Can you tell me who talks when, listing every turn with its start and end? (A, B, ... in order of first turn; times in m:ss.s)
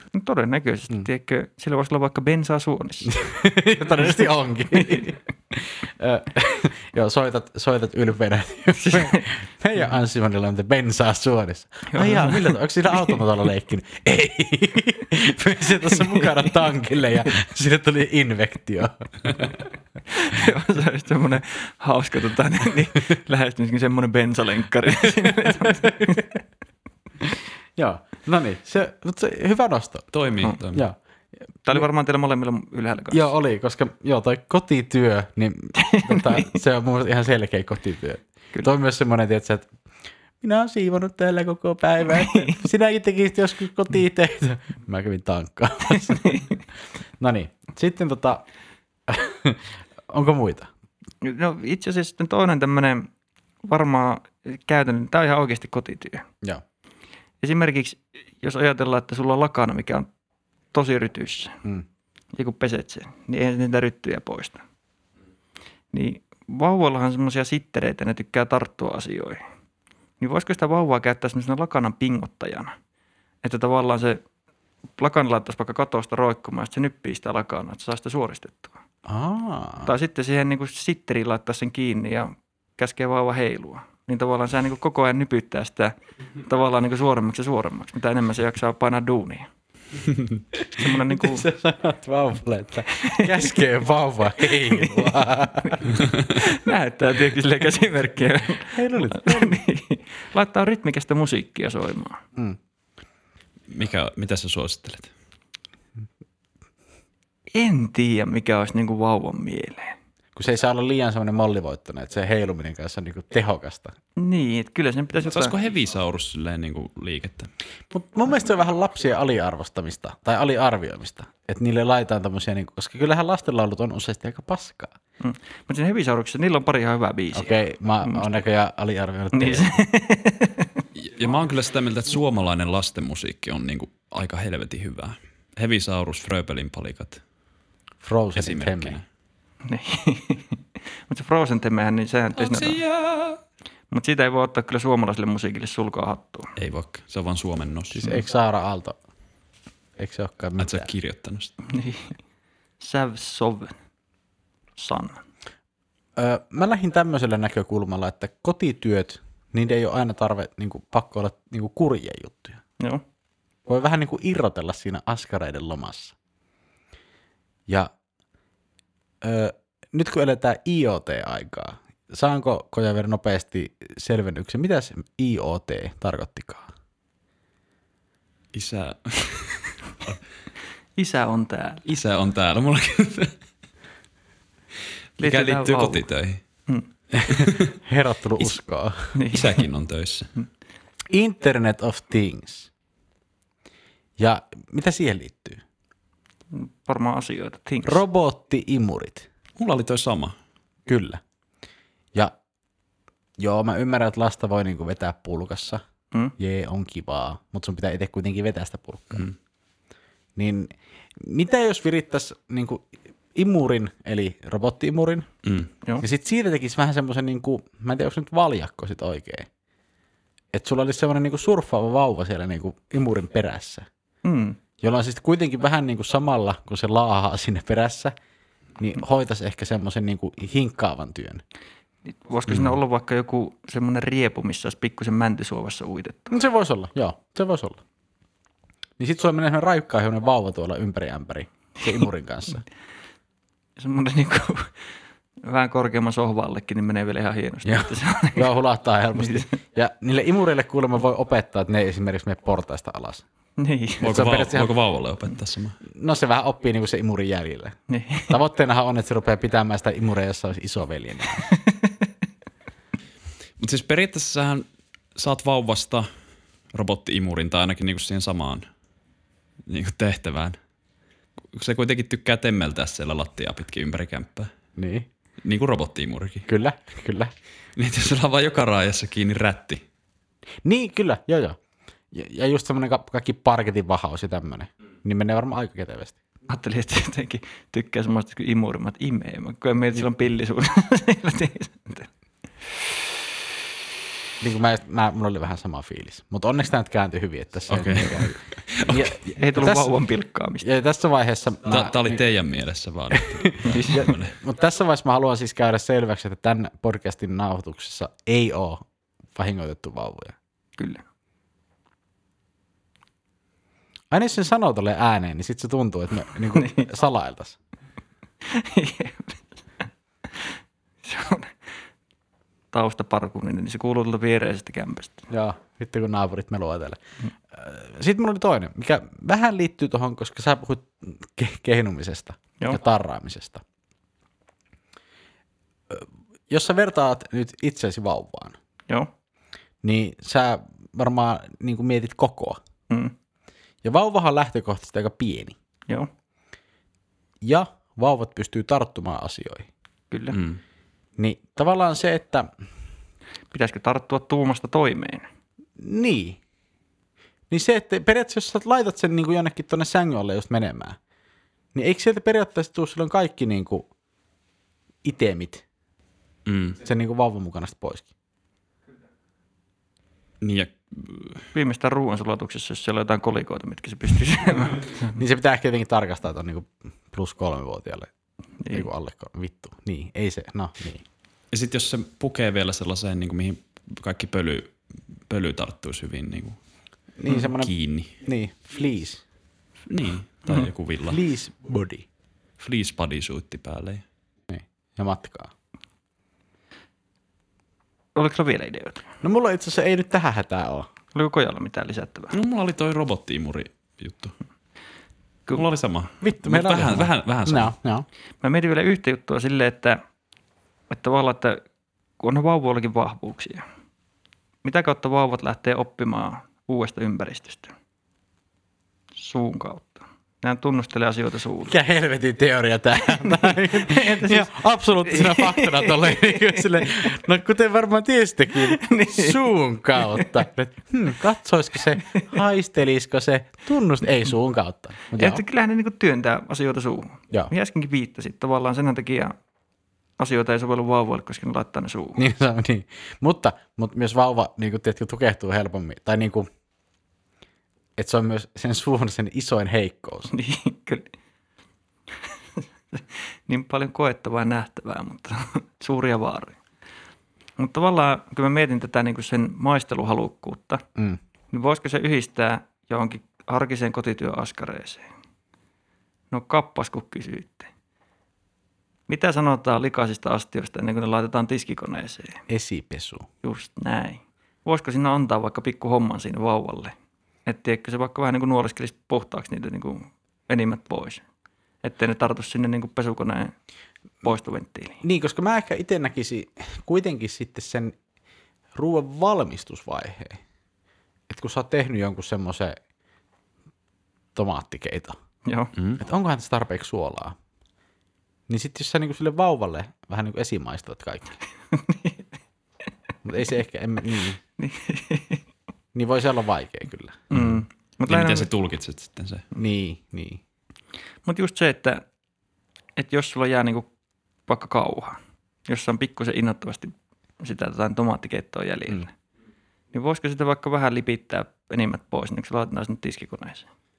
0:00.1-0:03.2 A
0:03.2-0:19.4 B
0:04.7-0:05.1 A
0:08.8-0:09.3 A
0:11.9-0:13.2 A
0:15.9-0:16.7 A
0:20.1-0:26.4 A
0:27.2-0:30.1 B
0:30.1-0:30.8 C
0:31.6-0:33.3 A
0:33.1-0:39.7 B
0:35.8-0:36.5 A
0:40.4-0:46.4 B
0:42.1-0:42.6 A
0:45.9-0:46.6 A
0:47.2-0:48.4 B
0:49.1-0:50.7 B
0:51.2-0:53.1 A
0:53.6-0:56.2 A
0:57.4-1:00.1 A
1:00.7-1:01.5 A
1:02.3-1:04.6 A
1:05.9-1:09.4 A
1:10.2-1:12.7 A
1:13.4-1:14.2 A
1:15.0-1:18.7 A
1:19.0-1:19.9 B
1:19.8-1:25.9 A
1:26.4-1:29.5 A
1:30.6-1:31.4 A
1:31.1-1:36.0 B
1:34.4-1:42.2 A
1:38.7-1:39.6 B
1:43.7-1:45.1 C
1:47.5-1:49.9 A
1:50.4-1:53.9 B
1:54.2-1:55.5 A
1:55.2-1:57.5 C
1:57.9-2:04.9 B
2:05.2-2:08.3 A
2:07.3-2:09.8 B
2:09.3-2:10.8 A
2:11.0-2:17.2 C
2:18.0-2:19.0 B
2:18.4-2:19.0 C
2:19.6-2:22.8 A
2:22.4-2:23.4 C
2:23.9-2:26.5 A
2:26.6-2:28.2 C
2:27.9-2:29.0 B
2:30.0-2:30.9 B
2:30.6-2:31.5 C
2:31.7-2:32.1 A
2:32.8-2:33.7 A
2:34.8-2:35.2 A
2:36.2-2:42.6 B
2:43.7-2:46.1 B
2:49.2-2:56.6 B
2:58.5-3:00.2 C
3:01.0-3:01.8 A
3:01.8-3:03.3 C
3:05.2-3:06.1 A
3:05.2-3:06.4 C
3:07.3-3:07.7 C
3:07.6-3:09.1 B
3:09.1-3:09.6 A
3:09.3-3:10.3 C
3:11.1-3:12.7 B
3:14.2-3:15.6 B
3:16.5-3:18.0 A
3:17.8-3:19.2 B
3:19.6-3:20.3 C
3:20.9-3:21.2 B
3:23.4-3:25.8 B
3:26.4-3:29.2 B
3:30.4-3:35.3 B
3:35.4-3:35.7 C
3:36.0-3:39.5 B
3:40.5-3:43.8 B
3:44.2-3:44.6 A
3:44.8-3:48.1 B
3:48.8-3:51.4 B
3:52.0-3:56.3 A
3:52.5-3:52.8 C
3:56.3-3:57.8 B
3:59.0-4:02.6 B
4:03.8-4:04.7 A
4:05.4-4:08.5 A
4:07.6-4:13.2 B
4:09.2-4:09.5 A
4:13.6-4:14.2 A
4:14.0-4:15.8 C
4:14.0-4:14.7 B
4:15.9-4:17.8 B
4:17.9-4:18.4 A
4:18.3-4:21.4 B
4:21.5-4:21.9 A
4:23.6-4:24.6 C
4:25.2-4:26.1 C
4:26.7-4:28.6 C
4:29.7-4:30.6 C
4:31.5-4:34.5 C
4:34.8-4:35.1 B
4:35.4-4:36.4 C
4:36.4-4:37.3 B
4:37.8-4:39.8 C
4:40.6-4:41.6 B
4:42.1-4:46.2 B
4:46.5-4:52.1 A
4:54.4-4:59.8 B
4:57.7-4:59.9 C
4:59.3-5:00.7 A
5:00.6-5:02.2 B
5:01.7-5:04.4 C
5:03.6-5:04.1 A
5:03.9-5:08.8 B
5:09.3-5:10.3 B
5:10.8-5:11.0 A
5:14.1-5:17.6 B
5:16.6-5:16.8 A
5:18.4-5:19.4 A
5:21.0-5:21.5 A
5:22.7-5:25.2 A
5:25.3-5:27.0 B
5:27.5-5:33.6 B
5:35.9-5:38.6 B
5:39.8-5:42.6 B
5:43.8-5:45.6 B
5:47.4-5:49.7 B
5:50.1-5:50.4 A
5:50.3-5:50.6 C
5:51.2-5:52.5 B
5:53.5-5:55.3 A
5:55.8-5:56.4 B
5:57.5-6:01.0 B
6:01.7-6:03.8 B
6:05.0-6:05.6 B
6:06.4-6:06.8 C
6:06.8-6:08.1 B
6:10.4-6:11.4 C
6:11.5-6:15.1 A
6:15.2-6:18.1 B
6:18.6-6:18.9 A
6:18.7-6:21.0 B
6:21.5-6:24.7 C
6:25.3-6:26.6 C
6:27.2-6:29.2 B
6:27.5-6:28.1 C
6:29.9-6:31.2 C
6:30.5-6:32.0 B
6:32.6-6:34.0 C
6:34.5-6:35.5 B
6:38.2-6:39.0 A
6:39.2-6:40.9 B
6:41.1-6:42.3 A
6:42.3-6:44.3 C
6:45.5-6:47.7 C
6:46.2-6:48.0 B
6:48.4-6:50.0 A
6:50.9-6:51.6 A
6:52.2-6:53.6 A
6:54.6-6:57.7 A
6:59.2-7:01.7 A
7:01.6-7:15.4 B
7:03.1-7:07.0 A
7:08.6-7:09.4 A
7:10.0-7:10.3 A
7:15.2-7:19.3 A
7:20.2-7:22.2 A
7:22.2-7:26.5 B
7:28.0-7:30.3 B
7:30.3-7:31.1 A
7:32.6-7:36.6 A
7:37.6-7:40.8 A
7:41.5-7:45.1 A
7:46.3-7:47.7 A
7:49.1-7:52.4 A
7:52.5-7:53.2 B
7:53.4-7:56.9 A
7:57.4-8:01.2 A
8:01.8-8:03.5 A
8:04.2-8:05.0 A
8:05.0-8:08.0 B
8:08.7-8:10.4 B
8:11.3-8:12.8 B
8:14.4-8:15.2 B
8:15.4-8:15.7 A
8:15.7-8:16.0 C
8:16.0-8:17.3 B
8:18.5-8:21.3 B
8:21.7-8:22.2 A
8:23.2-8:24.4 B
8:24.6-8:25.4 A
8:25.9-8:27.2 B
8:27.3-8:29.4 C
8:27.3-8:28.5 A
8:29.6-8:30.4 B
8:31.2-8:32.0 A
8:33.0-8:33.9 A
8:34.5-8:35.2 A
8:35.7-8:39.1 A
8:39.9-8:43.7 A